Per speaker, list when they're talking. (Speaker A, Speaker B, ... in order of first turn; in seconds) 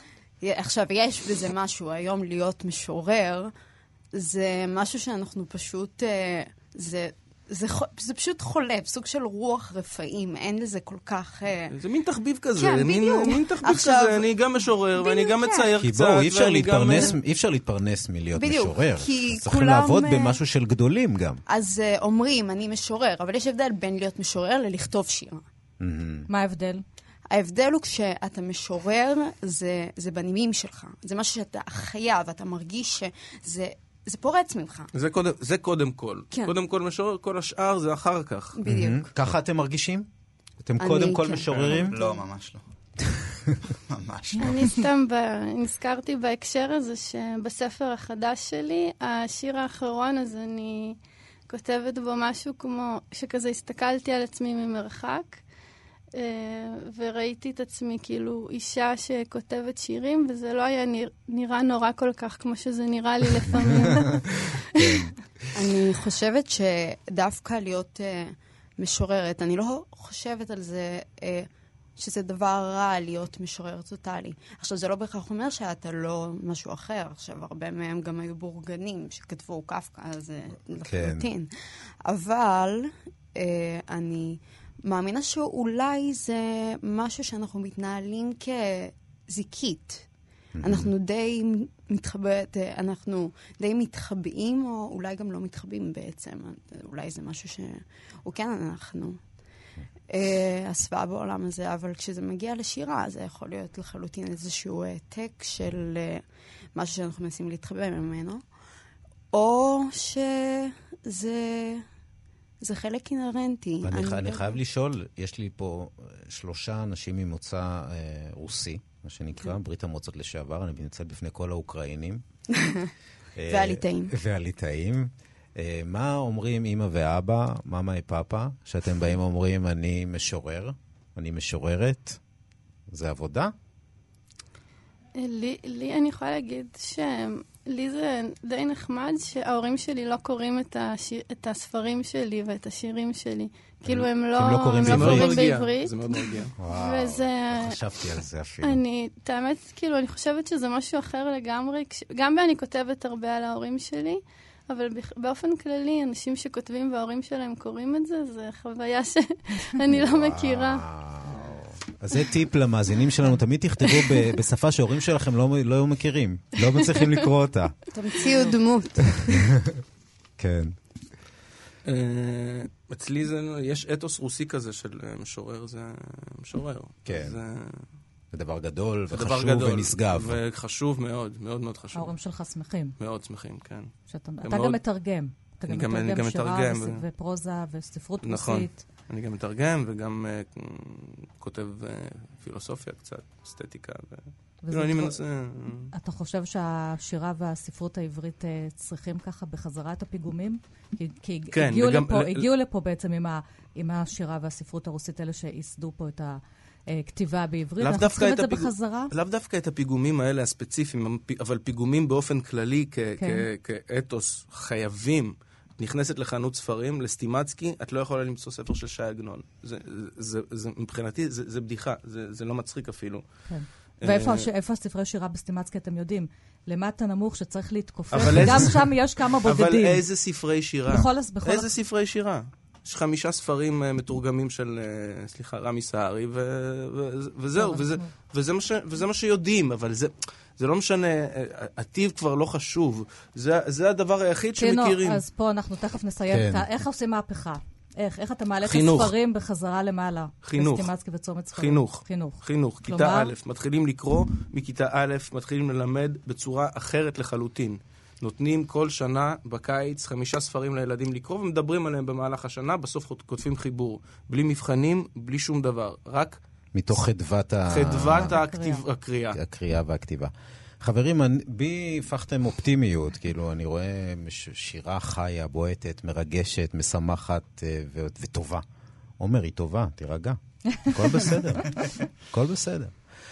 Speaker A: 0.4-3.5, 4.1-11.7, 12.6-14.3, 14.9-15.7, 18.4-20.4, 21.4-25.4, 27.3-34.9, 38.5-39.1, 40.8-42.2, 65.5-90.1, 90.6-99.2, 100.1-108.4, 109.3-111.8, 112.6-114.5, 122.5-122.9, 123.5-124.1, 167.9-169.5
Speaker B: 11.7-17.2, 34.9-38.6, 144.8-146.5, 171.8-177.8, 179.1-182.1, 183.0-184.8, 185.7-187.0, 188.2-195.9, 201.5-202.4, 207.8-223.2, 224.0-224.5, 228.1-228.9, 229.4-245.2, 248.6-249.1, 250.4-250.9, 251.5-266.4, 267.7-269.4
Speaker C: 15.8-21.4, 25.8-26.3, 38.6-40.1, 40.6-42.0, 64.7-65.2, 80.8-81.3, 90.5-90.9, 113.8-122.2, 123.3-132.2, 132.9-133.5, 143.8-145.4, 146.6-148.8, 159.9-167.9, 169.1-169.8, 170.4-170.8, 177.1-177.3, 178.3-180.4, 246.3-246.6, 266.7-268.4, 269.3-278.6, 279.2-283.0
Speaker D: 26.3-26.8, 181.9-182.9, 184.1-188.8, 194.6-195.2, 195.9-209.1, 213.2-213.5, 223.5-230.0, 230.9-231.7, 237.6-238.1, 244.6-253.3, 268.1-268.8
Speaker E: 41.5-42.6, 43.7-44.7
Speaker F: 44.4-51.0, 51.5-55.4, 56.1-65.0, 135.2-160.9